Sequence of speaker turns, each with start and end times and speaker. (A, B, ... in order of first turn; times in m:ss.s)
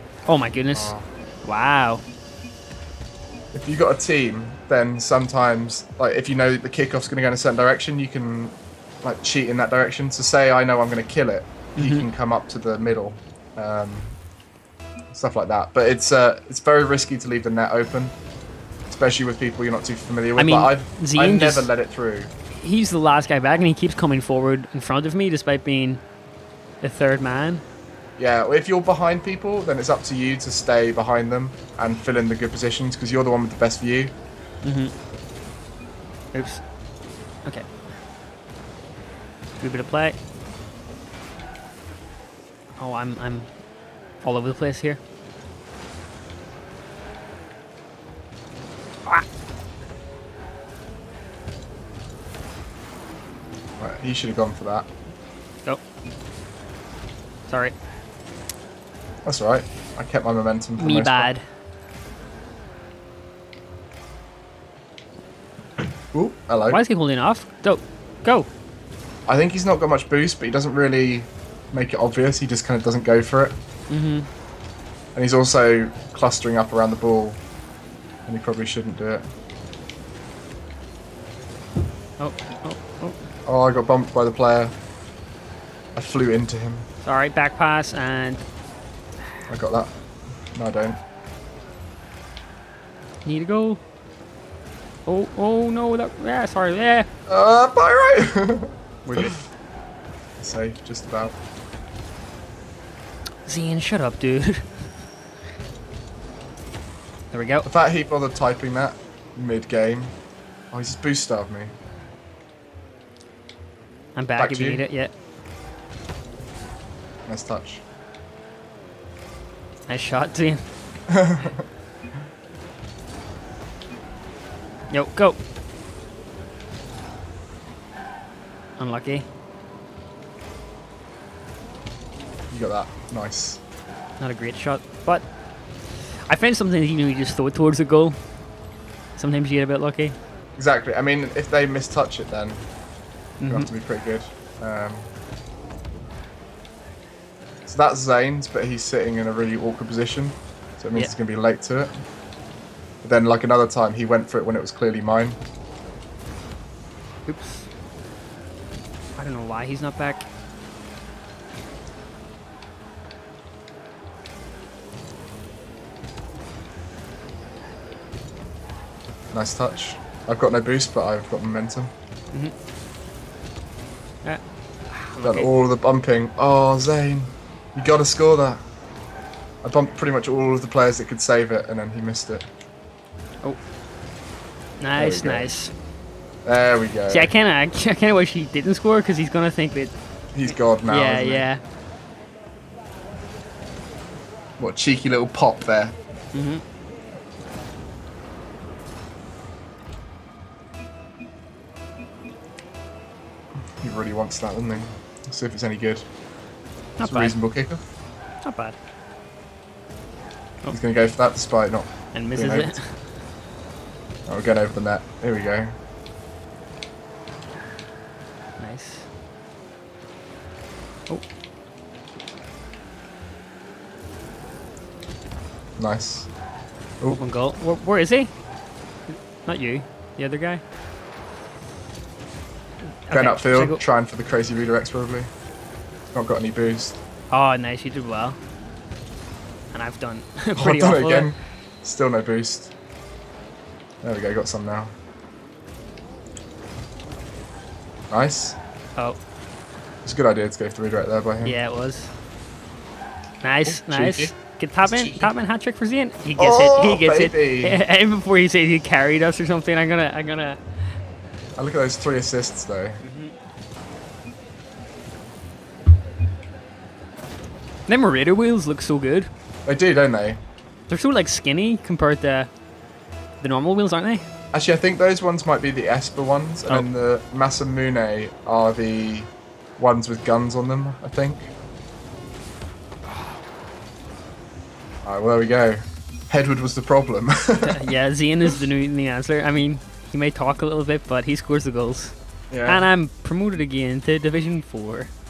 0:00.3-0:02.0 A
0:00.7-0:01.1 B
0:03.5-0:14.2 B
0:11.8-0:12.1 A
0:15.1-0:18.1 B
0:18.9-0:22.3 B
0:20.4-0:21.7 A
0:22.6-0:26.0 A
0:26.8-0:27.6 A
0:28.2-0:34.1 B
0:34.6-0:34.9 A
0:36.3-0:36.7 A
0:37.4-0:37.9 A
0:39.6-0:40.2 A
0:42.8-0:43.5 A
0:44.2-0:45.0 A
0:53.8-0:54.9 B
0:57.5-0:57.7 A
0:59.2-1:01.3 B
1:00.8-1:01.4 A
1:06.1-1:06.8 B
1:06.7-1:08.5 A
1:09.3-1:13.6 B
1:13.9-1:14.3 A
1:15.2-1:17.4 B
1:18.3-1:19.2 B
1:22.2-1:23.2 A
1:23.5-1:24.7 B
1:26.0-1:26.9 B
1:27.0-1:28.4 A
1:29.5-1:29.9 B
1:30.5-1:31.0 B
1:33.2-1:33.8 A
1:35.1-1:37.1 A
1:37.3-1:39.3 B
1:39.0-1:39.4 A
1:40.4-1:41.4 B
1:43.4-1:45.0 A
1:47.3-1:47.7 A
1:47.6-1:50.1 B
1:50.7-1:51.7 B
1:54.2-1:55.1 A
1:54.4-1:54.8 B
1:57.3-1:57.8 B
1:59.9-2:00.7 A
2:01.1-2:01.6 B
2:04.9-2:05.4 A
2:08.8-2:09.3 A
2:12.5-2:13.6 B
2:14.2-2:18.2 A
2:19.2-2:20.2 A
2:20.6-2:22.7 B
2:23.4-2:23.7 A
2:23.5-2:25.1 B
2:27.7-2:32.0 B
2:33.0-2:35.4 B
2:37.3-2:37.7 A
2:39.2-2:40.2 A
2:49.3-2:51.9 B
2:54.2-2:55.5 A
2:55.2-2:58.6 B
2:59.6-3:02.5 B
3:04.8-3:05.7 A
3:05.0-3:05.5 B
3:06.4-3:07.3 B
3:07.1-3:11.6 A
3:10.3-3:11.5 B
3:14.6-3:16.0 B
3:16.3-3:16.6 A
3:23.8-3:26.1 B
3:27.0-3:27.4 A
3:27.0-3:27.8 B
3:28.4-3:28.8 A
3:30.7-3:32.8 B
3:32.1-3:33.1 A
3:34.3-3:35.7 B
3:38.6-3:39.1 A
3:45.8-3:46.3 B
3:47.1-3:48.3 A
3:49.1-3:50.6 A
3:53.1-3:53.8 A
3:53.1-3:55.3 B
3:56.1-3:57.0 B
3:57.3-3:58.4 A
3:59.7-4:01.4 A
4:00.6-4:02.7 B
4:04.0-4:04.9 B
4:08.1-4:08.6 B
4:10.0-4:11.6 B
4:11.4-4:12.1 A
4:13.4-4:20.6 A
4:13.6-4:15.3 B
4:16.4-4:17.8 B
4:21.6-4:23.0 B
4:23.0-4:23.3 A
4:27.9-4:29.3 A
4:29.7-4:30.4 B
4:30.9-4:32.5 A
4:33.4-4:34.3 A
4:34.5-4:41.5 B
4:45.0-4:47.8 B
4:47.6-4:52.2 A
4:52.5-4:52.9 B
4:52.7-4:55.1 A